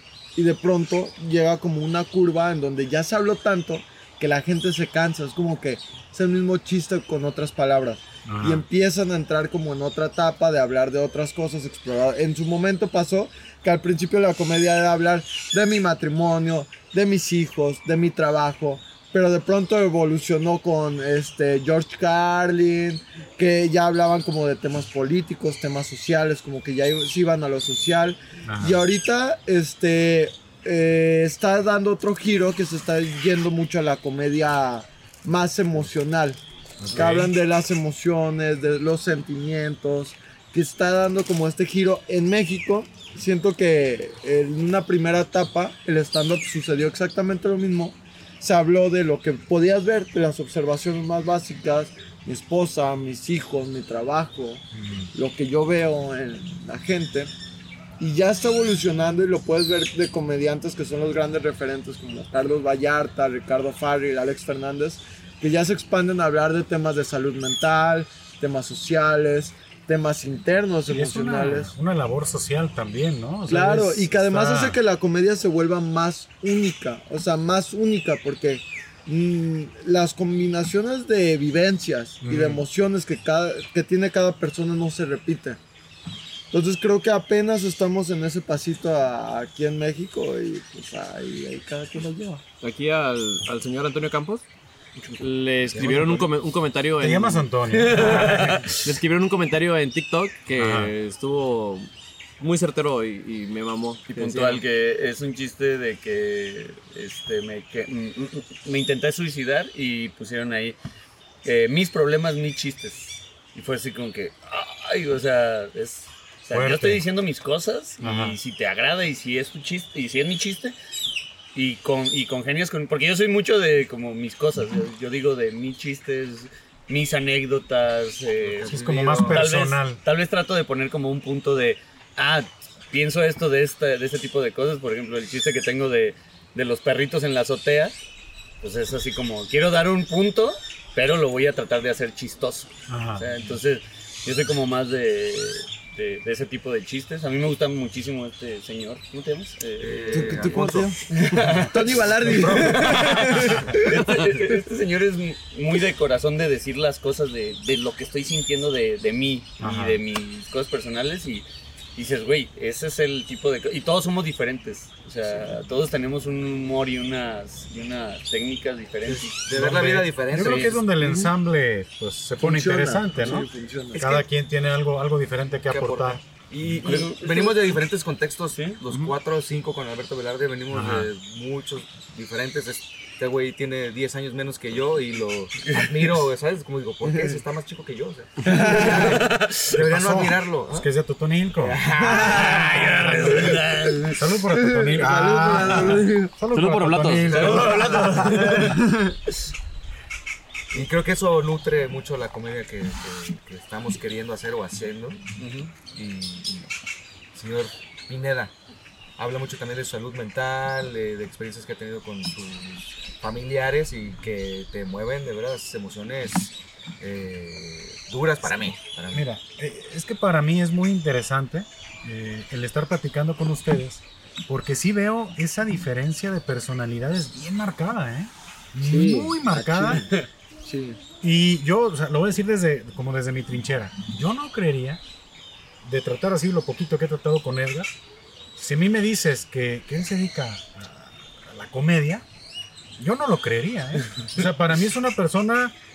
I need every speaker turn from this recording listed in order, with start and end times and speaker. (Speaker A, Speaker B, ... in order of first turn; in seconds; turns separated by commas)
Speaker A: 0.3-36.4, Speaker B: 8.2-8.7, Speaker B: 28.5-28.8, Speaker B: 36.8-37.3, Speaker A: 36.9-57.3, Speaker B: 54.7-55.1, Speaker A: 58.0-71.7, Speaker B: 70.9-74.8, Speaker A: 73.5-85.6, Speaker B: 82.2-82.7, Speaker A: 86.5-92.4, Speaker C: 92.6-94.4, Speaker D: 95.0-95.2, Speaker C: 95.2-104.6, Speaker B: 95.7-96.3, Speaker B: 97.0-98.7, Speaker D: 97.7-98.8, Speaker B: 100.5-100.9, Speaker D: 104.1-110.8, Speaker D: 111.4-120.7, Speaker B: 116.5-117.0, Speaker B: 118.0-118.4, Speaker D: 121.5-138.0, Speaker E: 128.4-129.5, Speaker B: 128.7-130.0, Speaker D: 138.6-150.6, Speaker B: 142.9-143.2, Speaker E: 149.8-151.7, Speaker A: 150.1-154.2, Speaker D: 151.2-161.4, Speaker B: 152.3-152.8, Speaker B: 159.6-160.0, Speaker D: 161.9-169.4, Speaker E: 169.1-170.8, Speaker B: 169.5-176.7, Speaker D: 170.3-170.8, Speaker A: 171.0-171.3, Speaker A: 172.4-174.2, Speaker E: 174.0-174.2, Speaker E: 175.7-190.9, Speaker D: 176.8-177.7, Speaker D: 178.5-178.8, Speaker B: 180.7-181.1, Speaker D: 185.6-186.0, Speaker A: 187.0-187.4, Speaker A: 188.4-189.3, Speaker D: 189.0-189.7, Speaker B: 189.7-191.8, Speaker E: 191.6-193.2, Speaker A: 192.0-196.3, Speaker D: 192.1-194.2, Speaker B: 192.3-198.5, Speaker C: 196.5-197.6, Speaker D: 197.2-198.9, Speaker E: 197.3-198.1, Speaker A: 198.2-199.1, Speaker E: 200.7-205.2, Speaker D: 205.4-205.7, Speaker E: 205.8-206.7, Speaker E: 207.3-208.5, Speaker E: 209.2-219.2, Speaker B: 218.4-230.0, Speaker A: 228.8-231.0, Speaker B: 231.2-235.0, Speaker B: 235.8-237.9, Speaker B: 238.6-242.2, Speaker B: 243.0-245.7